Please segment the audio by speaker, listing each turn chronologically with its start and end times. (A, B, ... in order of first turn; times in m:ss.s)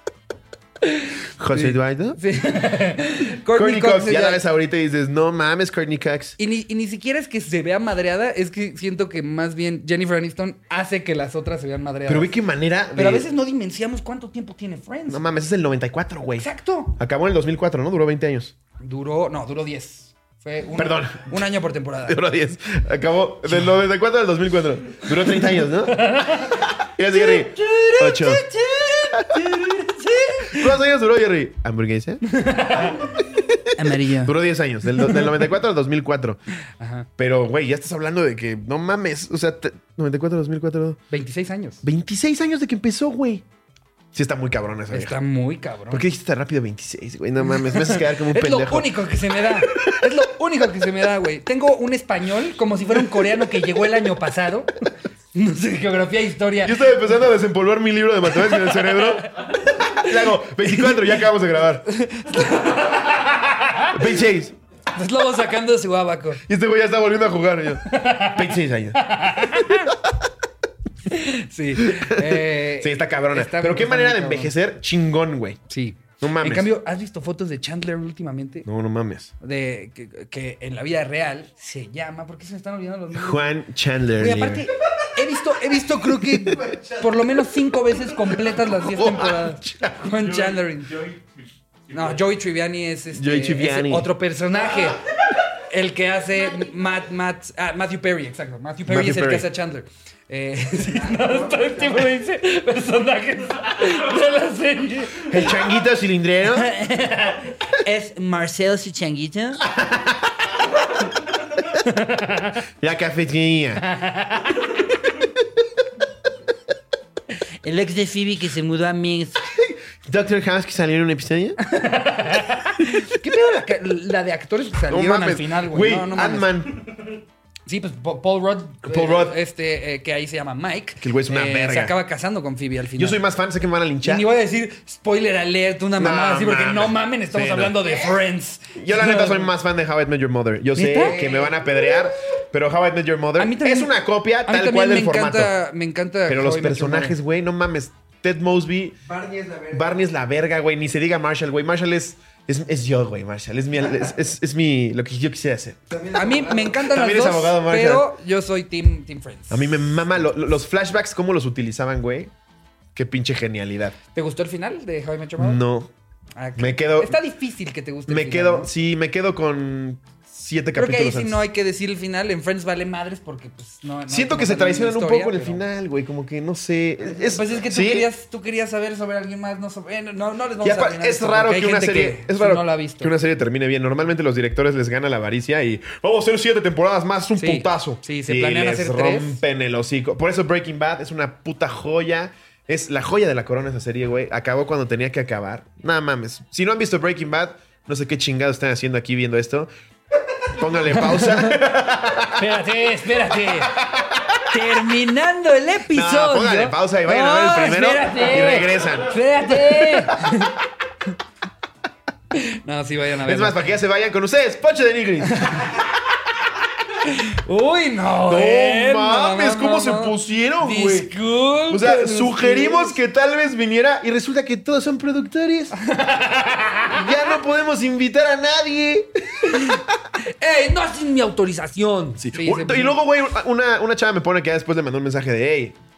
0:00.8-0:04.4 A
0:01.4-0:02.2 B
0:03.5-0:06.4 B
0:06.4-0:12.3 A
0:12.1-0:13.3 B
0:12.9-0:15.2 A
0:15.1-0:18.5 B
0:16.4-0:17.0 A
0:18.8-0:22.2 A
0:20.7-0:21.4 B
0:22.0-0:29.8 B
0:25.9-0:30.7 A
0:30.4-0:32.2 B
0:32.2-0:33.2 A
0:32.8-0:36.4 B
0:33.7-0:34.4 A
0:34.9-0:35.4 A
0:36.8-0:37.1 A
0:37.2-0:41.0 B
0:41.1-0:41.8 A
0:41.8-0:43.4 B
0:44.1-0:45.2 B
0:44.9-0:46.1 A
0:45.9-0:50.1 B
0:47.5-0:57.1 A
0:53.0-0:53.7 B
0:56.6-1:01.8 B
0:58.4-1:01.0 A
1:01.9-1:04.2 A
1:03.9-1:04.5 B
1:04.9-1:06.4 A
1:06.4-1:10.2 B
1:07.8-1:09.9 A
1:11.1-1:14.5 A
1:11.8-1:15.6 B
1:15.7-1:18.7 A
1:16.2-1:16.7 B
1:18.6-1:19.3 B
1:19.4-1:23.5 A
1:23.1-1:24.7 B
1:24.2-1:31.2 A
1:25.5-1:30.2 B
1:31.9-1:45.7 A
1:33.1-1:34.1 B
1:38.9-1:39.5 B
1:41.2-1:41.7 C
1:45.2-1:46.7 B
1:46.5-1:49.6 A
1:49.7-1:50.3 B
1:51.7-1:52.6 A
1:52.8-1:53.8 B
1:53.8-1:54.7 A
1:57.6-1:59.4 A
1:59.4-2:01.6 B
2:01.6-2:06.5 A
2:04.9-2:06.8 B
2:07.7-2:13.2 A
2:08.8-2:09.4 B
2:11.0-2:11.9 B
2:13.0-2:14.3 B
2:14.0-2:19.5 A
2:16.0-2:17.9 B
2:18.7-2:25.5 B
2:20.7-2:21.5 A
2:23.4-2:23.9 A
2:24.4-2:27.2 A
2:26.3-2:29.0 B
2:29.0-2:29.9 C
2:29.7-2:35.8 B
2:35.9-2:36.8 C
2:36.1-2:40.2 A
2:36.8-2:38.1 B
2:39.5-2:42.3 B
2:42.9-2:44.0 B
2:44.1-2:45.6 A
2:45.4-2:45.9 B
2:46.4-2:48.7 A
2:46.6-2:47.2 B
2:48.1-2:51.4 B
2:50.7-2:55.6 A
2:54.1-2:58.1 B
2:57.0-3:03.1 A
3:00.6-3:19.7 B
3:07.4-3:09.4 A
3:20.5-3:22.4 B
3:20.9-3:21.6 A
3:22.2-3:23.8 A
3:23.3-3:24.7 B
3:24.5-3:30.6 A
3:25.9-3:30.3 B
3:32.3-3:33.6 A
3:33.2-3:35.9 B
3:35.3-3:35.8 A
3:37.0-3:43.0 A
3:38.3-3:41.1 B
3:41.7-3:45.7 B
3:45.8-3:47.1 A
3:46.9-3:50.0 B
3:49.4-3:53.0 A
3:52.2-3:55.8 B